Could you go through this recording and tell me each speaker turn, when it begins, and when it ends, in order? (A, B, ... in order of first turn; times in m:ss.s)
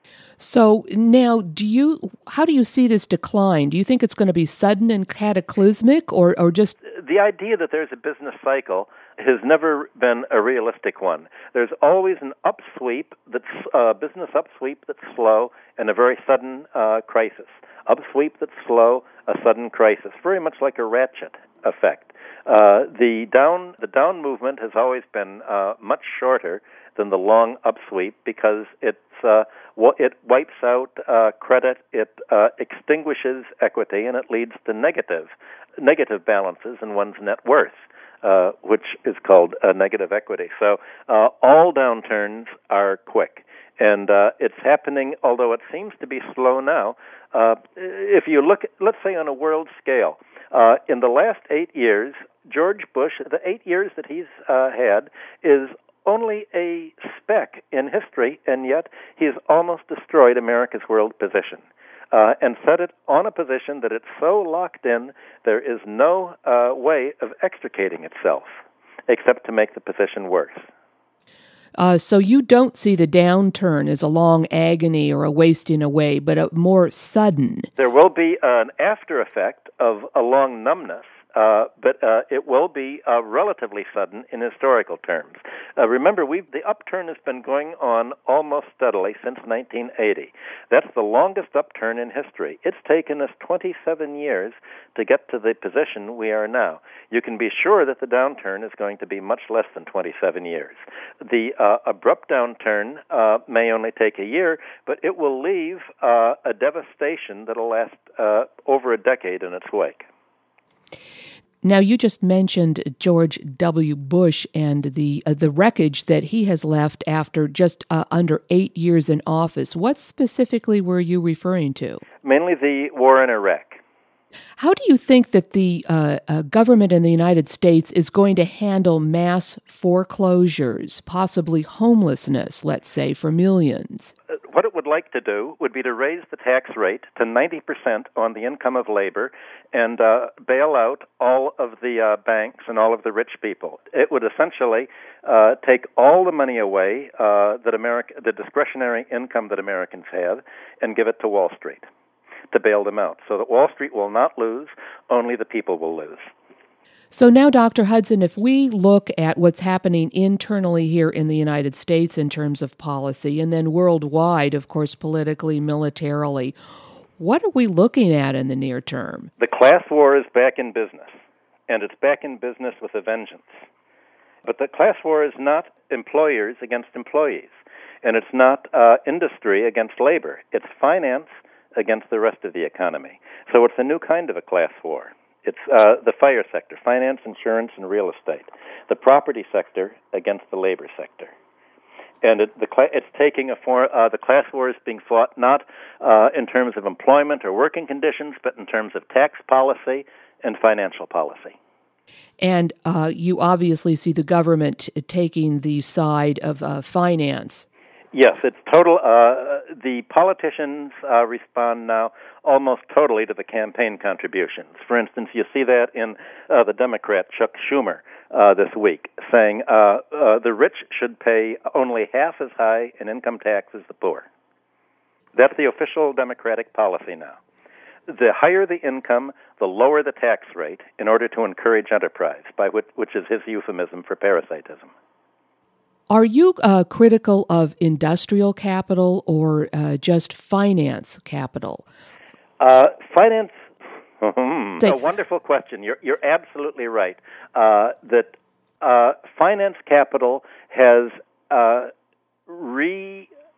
0:00.4-0:06.8 A
0:06.8-1:08.5 B
1:09.1-1:10.7 B
1:11.8-1:17.7 A
1:17.8-1:50.0 B
1:51.6-2:02.0 A
2:02.2-2:03.8 B
2:04.6-2:14.1 A
2:14.5-2:31.8 B
2:32.5-2:36.3 B
2:37.1-2:46.6 A
2:47.2-2:49.3 A
2:49.4-2:51.1 B
2:51.7-2:53.5 B
2:54.4-2:57.5 B
2:58.0-3:11.3 B
3:12.2-3:21.5 B
3:22.4-3:27.7 A
3:28.1-3:44.2 B
3:45.3-3:47.4 B
3:48.1-3:54.9 B
3:56.1-4:01.8 A
4:02.6-4:03.5 B
4:04.2-4:11.9 B
4:12.5-4:13.3 B